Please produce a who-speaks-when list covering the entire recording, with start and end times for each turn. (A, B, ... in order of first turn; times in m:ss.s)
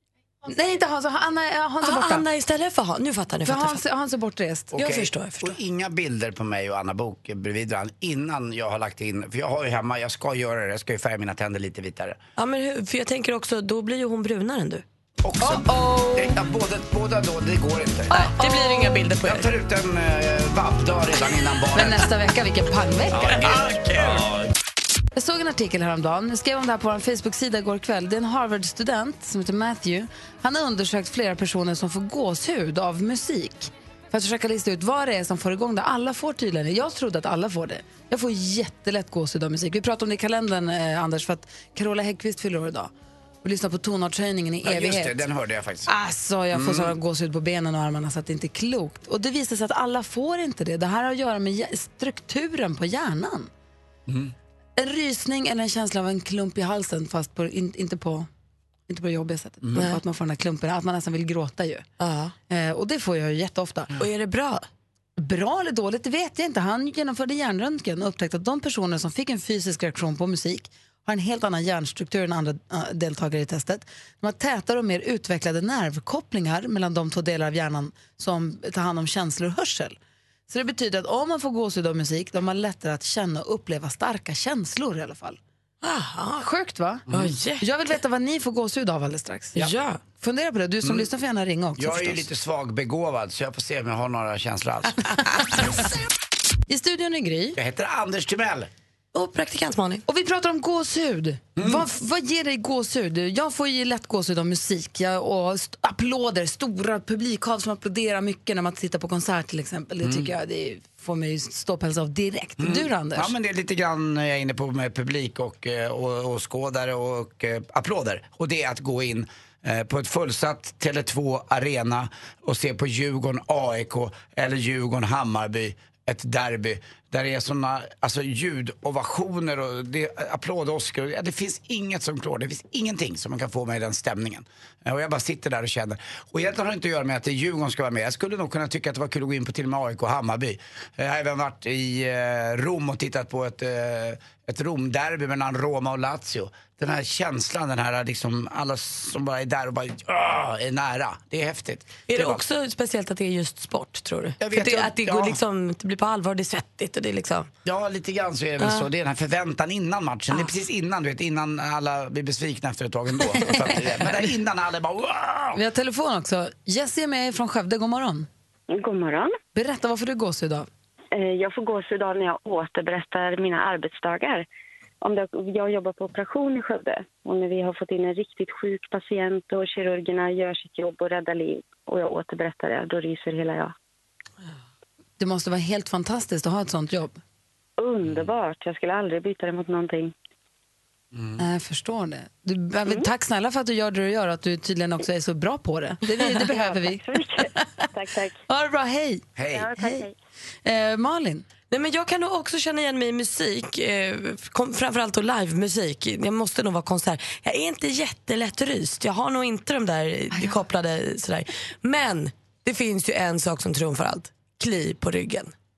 0:00.4-0:02.2 A
0:01.8-0:03.8 B
0:03.4-0:04.8 A
0:04.7-0:12.2 C
0:04.7-0:05.6 B
0:12.4-0:14.8 B
0:15.2-0:18.1 C
0:15.4-0:16.4 A
0:18.1-0:19.5 B
0:18.1-0:18.9 A
0:19.2-0:22.1 C
0:21.7-0:23.5 A
0:23.1-0:24.2 C
0:25.2-0:42.9 A
0:43.4-0:45.2 A
0:44.6-0:45.9 C
0:45.9-0:53.5 A
0:46.5-0:46.9 C
0:54.1-0:54.3 C
0:54.8-0:58.3 A
0:58.9-1:01.9 A
0:59.6-0:59.9 C
1:02.0-1:02.3 B
1:02.5-1:03.9 A
1:04.0-1:04.6 B
1:05.2-1:20.0 A
1:20.5-1:25.4 A
1:25.8-1:26.4 B
1:26.4-1:27.0 A
1:27.1-1:27.3 C
1:27.1-1:27.6 B
1:27.6-1:29.6 A
1:29.6-1:30.0 B
1:30.2-1:32.2 A
1:30.8-1:31.1 C
1:31.8-1:35.0 C
1:36.7-1:37.6 A
1:37.6-1:38.7 C
1:39.1-1:40.0 B
1:40.1-1:53.3 A
1:41.6-1:41.8 C
1:50.0-1:50.3 C
1:52.6-2:32.4 C
2:32.1-2:37.5 B
2:34.4-2:35.4 C
2:37.6-2:45.6 C
2:38.6-2:38.9 B
2:45.5-2:48.3 A
2:48.7-2:49.3 D
2:49.5-2:50.7 A
2:51.1-2:54.4 D
2:55.0-3:03.7 D
3:05.2-3:07.2 A
3:07.8-3:10.1 D
3:11.1-3:11.4 C
3:11.4-3:17.8 A
3:16.5-3:18.4 D
3:18.5-3:19.2 A
3:19.4-3:19.7 C
3:19.5-3:20.1 D
3:19.8-3:20.0 A
3:20.6-3:21.4 A
3:21.7-3:35.5 B